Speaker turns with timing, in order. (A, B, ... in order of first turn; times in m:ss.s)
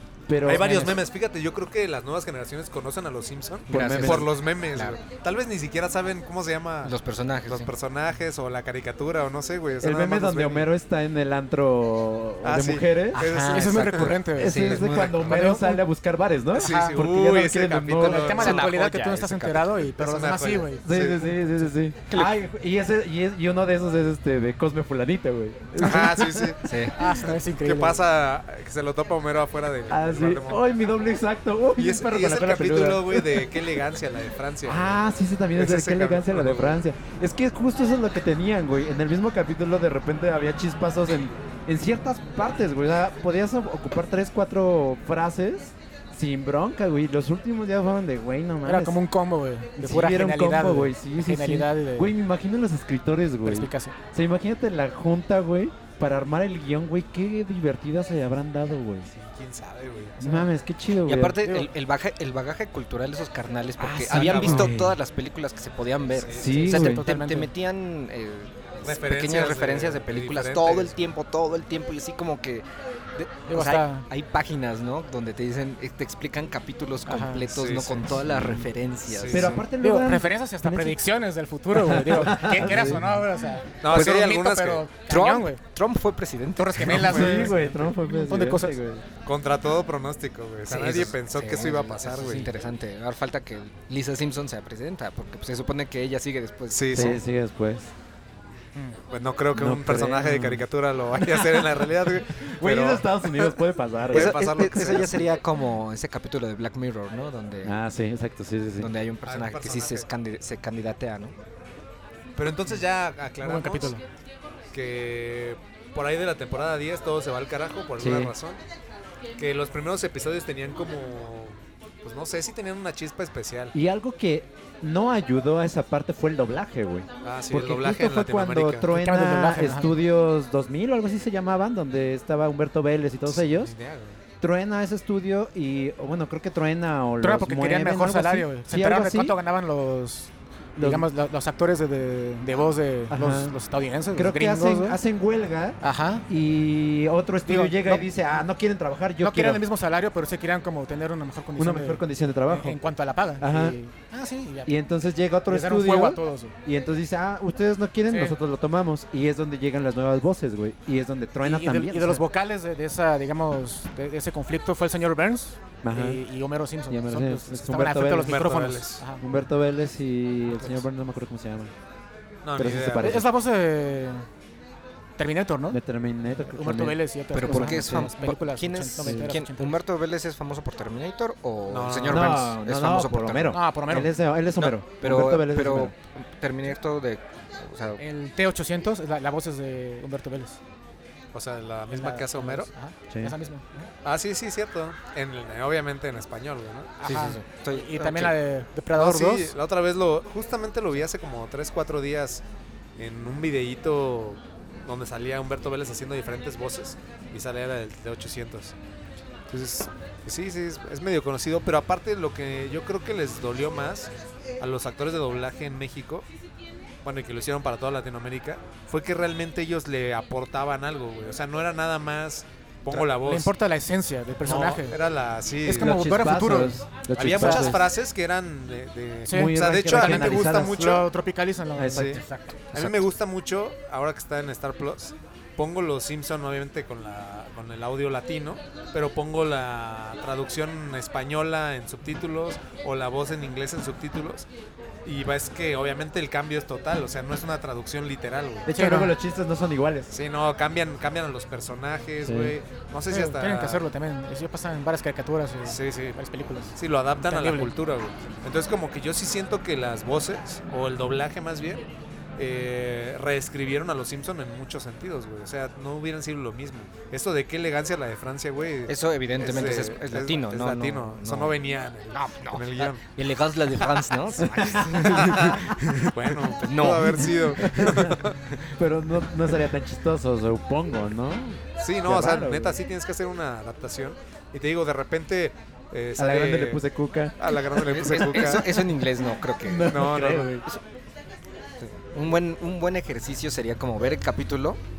0:00.3-0:01.0 A
0:00.4-0:10.7 B
0:03.7-0:04.3 A
0:03.7-0:05.0 C
0:06.8-0:07.7 C
0:09.8-0:13.2 A
0:12.4-0:14.2 B
0:13.1-0:15.6 C
0:13.2-0:15.8 D
0:14.3-0:18.4 A
0:15.0-0:15.3 B
0:16.5-0:18.7 B
0:16.6-0:17.0 D
0:18.0-0:21.3 D
0:18.4-0:19.8 C
0:19.9-0:21.2 B
0:20.8-0:26.5 A
0:25.8-0:30.6 B
0:26.6-0:27.0 C
0:27.0-0:28.0 D
0:29.9-0:33.5 A
0:31.8-0:35.0 B
0:34.6-0:49.0 A
0:35.5-0:36.8 B
0:48.6-0:52.1 D
0:49.8-0:59.1 A
0:53.4-0:53.9 D
0:59.1-1:00.3 B
1:00.2-1:01.4 A
1:01.0-1:19.6 C
1:01.4-1:01.7 D
1:03.8-1:05.0 A
1:04.1-1:04.8 B
1:06.1-1:06.7 B
1:06.3-1:07.0 A
1:06.6-1:07.5 D
1:08.8-1:11.0 B
1:13.5-1:14.1 D
1:17.1-1:17.5 D
1:17.5-1:18.1 B
1:18.2-1:18.7 A
1:19.0-1:19.6 B
1:19.3-1:21.0 A
1:19.8-1:25.6 D
1:21.7-1:23.1 A
1:23.8-1:24.9 B
1:23.9-1:24.3 C
1:25.1-1:27.5 C
1:26.6-1:28.8 D
1:26.9-1:29.0 A
1:27.0-1:27.5 B
1:29.2-1:32.5 B
1:30.7-1:37.2 C
1:36.7-1:37.2 B
1:36.9-1:37.9 A
1:39.1-1:45.3 B
1:39.5-1:40.6 A
1:41.3-1:41.6 A
1:42.4-1:44.4 A
1:44.1-1:47.7 C
1:47.6-1:48.9 A
1:48.8-1:51.4 C
1:49.2-1:50.1 B
1:52.4-1:54.0 B
1:53.4-1:54.0 D
1:54.7-1:58.6 B
1:58.0-1:58.3 A
1:59.4-2:03.7 B
2:03.7-2:13.7 A
2:07.2-2:08.9 B
2:08.9-2:09.9 D
2:13.2-2:14.2 B
2:14.4-2:19.4 A
2:17.2-2:25.0 D
2:20.8-2:21.1 A
2:23.1-2:23.5 A
2:24.1-2:29.6 A
2:25.8-2:26.2 D
2:27.4-2:28.1 D
2:29.2-2:34.7 D
2:31.6-2:32.8 A
2:33.4-2:33.8 A
2:34.6-2:42.2 A
2:35.5-2:36.5 D
2:38.1-2:38.4 D
2:41.4-2:49.2 D
2:45.8-2:46.2 A
2:46.9-2:48.4 A
2:48.2-2:49.0 B
2:49.2-2:51.7 A
2:52.4-2:53.2 B
2:52.6-2:53.2 A
2:52.9-2:54.3 D
2:55.2-2:55.8 D
2:55.7-2:58.1 A
2:56.5-2:59.8 D
2:57.3-3:03.6 C
2:59.0-2:59.3 A
3:01.7-3:02.4 B
3:02.1-3:05.9 A
3:03.5-3:04.1 D
3:04.6-3:08.0 C
3:08.0-3:10.6 D
3:11.3-3:12.7 B
3:11.9-3:13.9 D
3:13.1-3:13.4 A
3:14.0-3:17.0 B
3:17.0-3:19.5 D
3:17.0-3:17.4 A
3:17.0-3:18.4 C
3:18.9-3:22.4 B
3:23.0-3:28.7 B
3:29.5-3:36.2 B
3:37.0-3:43.5 B
3:43.0-3:45.0 D
3:44.4-3:46.0 B
3:45.6-3:47.8 D
3:45.7-3:47.8 A
3:47.2-3:51.1 B
3:49.3-3:52.6 D
3:49.3-3:50.8 A
3:51.7-3:52.2 A
3:51.9-4:04.5 B
3:52.7-3:53.0 C
4:05.0-4:08.7 B
4:08.6-4:10.1 A
4:08.7-4:09.1 D
4:10.1-4:13.8 B
4:12.2-4:12.5 A
4:13.1-4:17.7 D
4:15.6-4:16.2 B
4:16.7-4:21.8 B
4:22.4-4:33.0 B
4:28.9-4:31.5 C
4:32.1-4:37.9 C
4:34.4-4:35.8 A
4:35.2-4:38.5 B
4:37.0-4:38.2 A
4:38.7-4:42.8 A
4:41.8-4:46.8 B
4:46.2-4:47.6 A
4:47.4-4:48.9 B
4:47.7-4:50.0 C
4:49.5-4:50.6 A
4:49.9-4:50.6 B
4:51.8-4:54.8 C